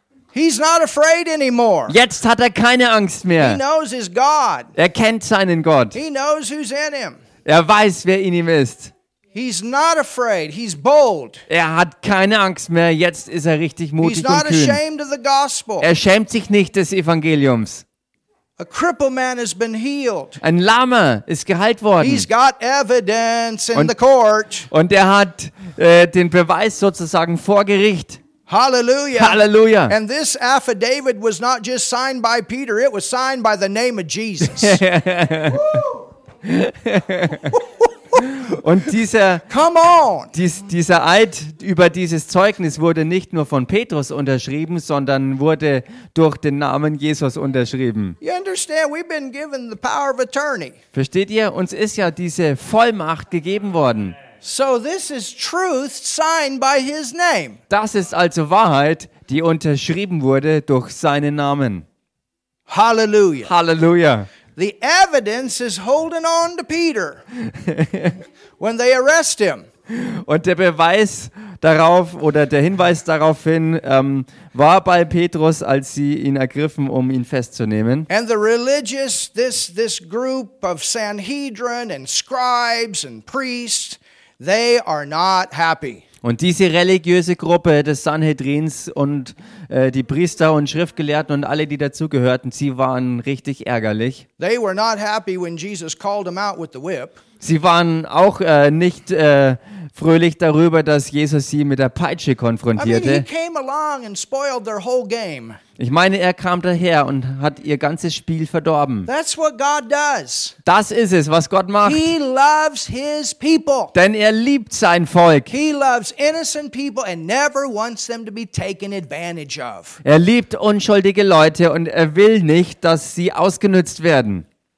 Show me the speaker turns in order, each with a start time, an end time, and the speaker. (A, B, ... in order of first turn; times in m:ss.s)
0:00.3-0:02.0 A
0:01.9-0:03.6 B
0:03.4-0:04.7 A
0:04.8-0:06.0 B
0:05.9-0:07.2 A
0:07.4-0:08.9 B
0:09.3-0:11.4 A
0:11.5-0:14.8 B
0:14.0-0:15.9 A
0:15.8-0:17.8 B
0:18.6-0:20.4 A
0:20.4-0:22.3 B
0:22.0-0:24.7 A
0:24.7-0:28.2 B
0:28.5-0:34.8 A
0:29.2-0:30.0 B
0:34.4-0:35.8 B
0:36.4-0:39.5 B
0:39.5-0:40.3 A
0:40.3-0:48.2 B
0:48.2-0:50.8 A
0:50.9-0:54.2 B
0:54.4-0:57.6 A
0:57.7-1:01.8 B
1:02.7-1:03.5 A
1:03.4-1:04.3 B
1:04.6-1:07.2 A
1:07.4-1:08.2 B
1:08.6-1:09.6 A
1:09.9-1:18.1 B
1:18.1-1:26.0 A
1:26.2-1:34.2 B
1:34.4-1:37.2 A
1:37.4-1:43.2 B
1:42.8-1:45.6 A
1:45.8-1:49.1 B
1:49.0-1:50.6 A
1:50.6-1:52.1 B
1:51.8-1:53.9 A
1:53.9-1:55.5 B
1:55.5-2:00.0 A
2:00.0-2:04.4 B